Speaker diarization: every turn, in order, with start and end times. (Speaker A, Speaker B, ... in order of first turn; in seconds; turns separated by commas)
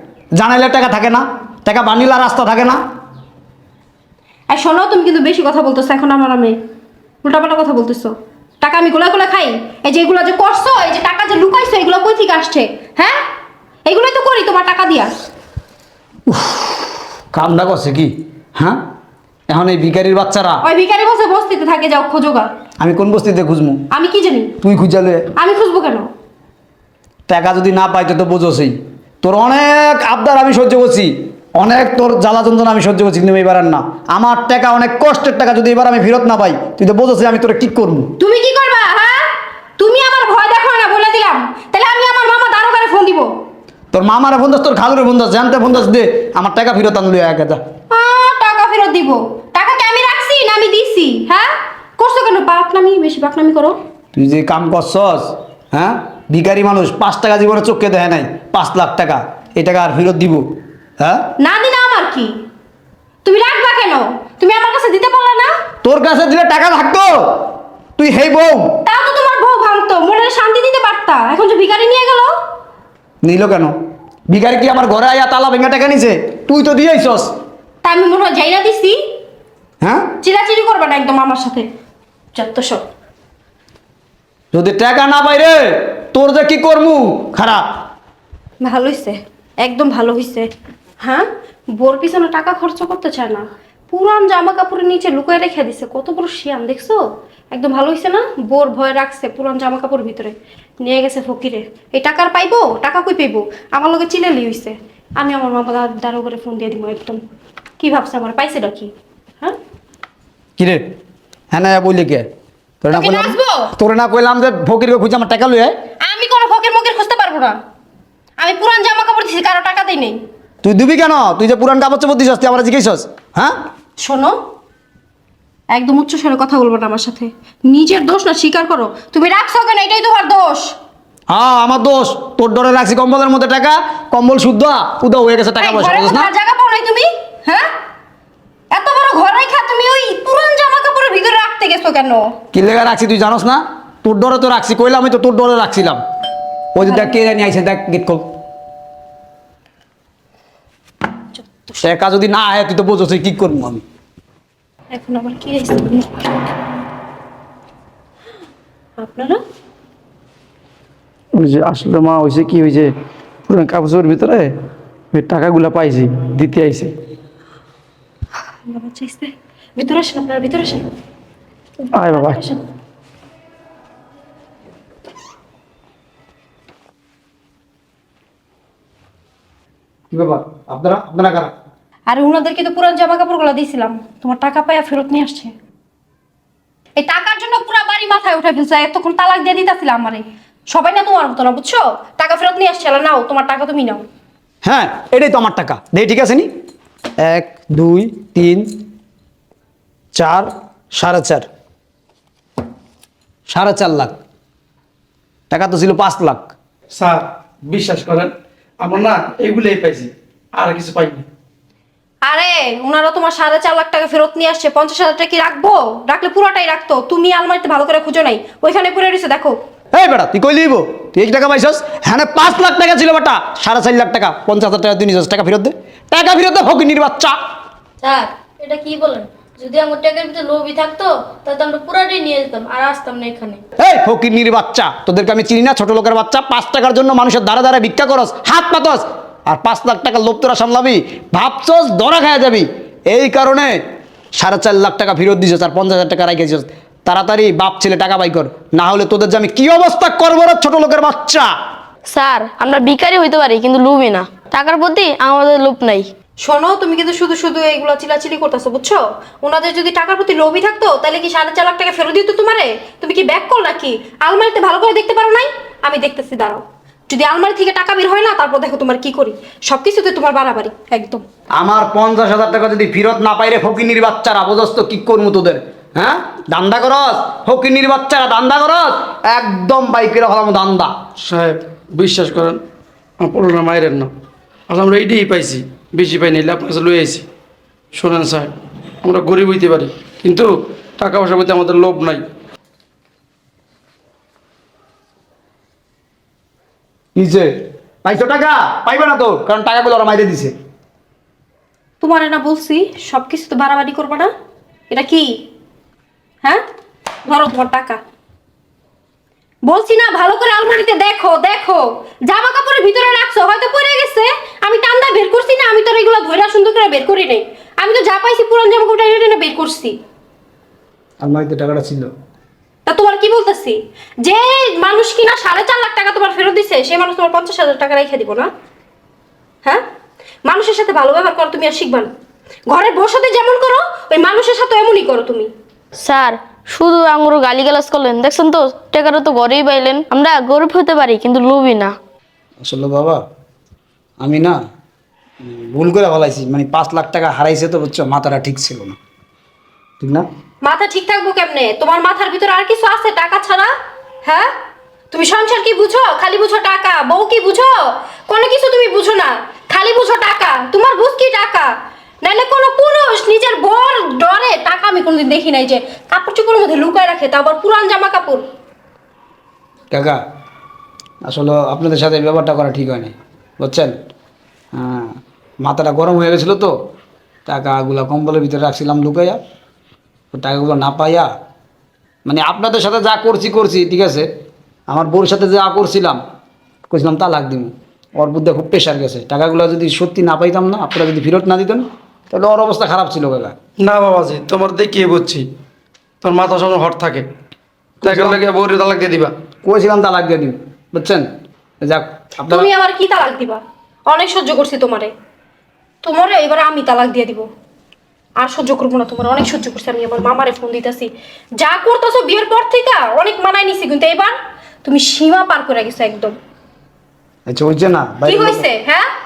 Speaker A: 0.3-2.8, Speaker B: 4.5-6.5, Speaker B: 7.2-13.2, Speaker B: 13.8-15.1, Speaker A: 16.3-18.8, Speaker A: 19.5-20.6, Speaker B: 20.6-22.5, Speaker A: 22.8-23.8, Speaker B: 23.9-24.5, Speaker A: 24.6-25.3, Speaker B: 25.3-26.1, Speaker A: 27.3-38.1, Speaker B: 38.2-43.3, Speaker A: 43.9-47.6, Speaker B: 47.9-53.8, Speaker A: 54.1-60.4, Speaker A: 61.0-61.3, Speaker B: 61.4-62.3, Speaker B: 63.2-65.5, Speaker A: 65.8-67.4, Speaker A: 68.0-68.7, Speaker B: 68.8-72.3, Speaker A: 73.2-73.8, Speaker A: 74.3-77.3, Speaker B: 77.8-79.0, Speaker A: 79.8-80.1, Speaker B: 80.2-81.7, Speaker B: 82.3-82.8, Speaker A: 84.5-87.7, Speaker B: 88.6-90.5, Speaker B: 91.0-107.2, Speaker B: 107.8-109.5, Speaker A: 110.6-110.8, Speaker A: 111.5-112.3, Speaker A: 112.8-115.7, Speaker B: 112.9-113.7, Speaker B: 116.0-117.6, Speaker B: 118.4-120.2, Speaker A: 120.6-123.5, Speaker B: 124.0-124.4, Speaker B: 125.7-130.7, Speaker A: 131.3-136.3, Speaker B: 135.6-137.7, Speaker B: 138.7-142.2, Speaker A: 142.5-146.0, Speaker A: 146.7-148.3, Speaker B: 146.8-147.1, Speaker B: 151.3-151.8, Speaker A: 151.8-153.8, Speaker B: 154.9-156.3, Speaker B: 159.0-159.4, Speaker C: 161.3-162.9, Speaker C: 163.5-164.5, Speaker C: 165.1-166.9, Speaker B: 168.6-170.8, Speaker B: 171.8-172.6, Speaker C: 171.9-172.4, Speaker A: 180.1-181.5, Speaker B: 182.1-185.5, Speaker B: 187.0-194.0, Speaker A: 194.6-196.5, Speaker A: 197.2-198.8, Speaker A: 200.1-201.5, Speaker A: 203.5-204.2, Speaker A: 205.5-206.5, Speaker C: 206.9-211.2, Speaker B: 212.2-219.6, Speaker A: 219.9-227.3, Speaker D: 228.0-233.6, Speaker A: 233.8-243.8, Speaker A: 244.3-251.5, Speaker D: 252.1-256.1, Speaker B: 256.4-271.2, Speaker A: 271.6-280.9, Speaker C: 281.2-282.6, Speaker C: 283.2-284.1, Speaker C: 284.7-287.2, Speaker C: 287.9-288.5, Speaker C: 289.0-292.2, Speaker A: 297.1-297.5, Speaker A: 298.0-300.5, Speaker B: 302.0-304.3, Speaker B: 304.9-305.3, Speaker B: 307.2-308.0, Speaker B: 309.6-320.0, Speaker A: 321.2-322.1, Speaker B: 322.9-328.5, Speaker B: 330.4-332.1, Speaker B: 332.7-335.5, Speaker D: 336.0-341.9, Speaker A: 342.6-343.2, Speaker A: 344.2-344.6, Speaker A: 345.4-349.0, Speaker A: 350.0-350.2, Speaker B: 350.6-353.7, Speaker B: 354.2-354.5, Speaker B: 355.1-368.4, Speaker A: 369.9-370.2, Speaker A: 371.2-373.9, Speaker A: 374.7-376.7, Speaker A: 377.5-379.4, Speaker A: 380.3-381.3, Speaker A: 382.2-384.3, Speaker A: 384.9-386.2, Speaker A: 386.9-393.5, Speaker C: 393.8-395.4, Speaker C: 396.2-397.2, Speaker A: 398.0-398.4, Speaker C: 398.0-399.3, Speaker A: 399.6-401.3, Speaker A: 401.8-402.7, Speaker B: 402.5-405.1, Speaker B: 406.0-407.5, Speaker B: 408.4-416.4, Speaker A: 417.5-418.6, Speaker B: 418.2-419.1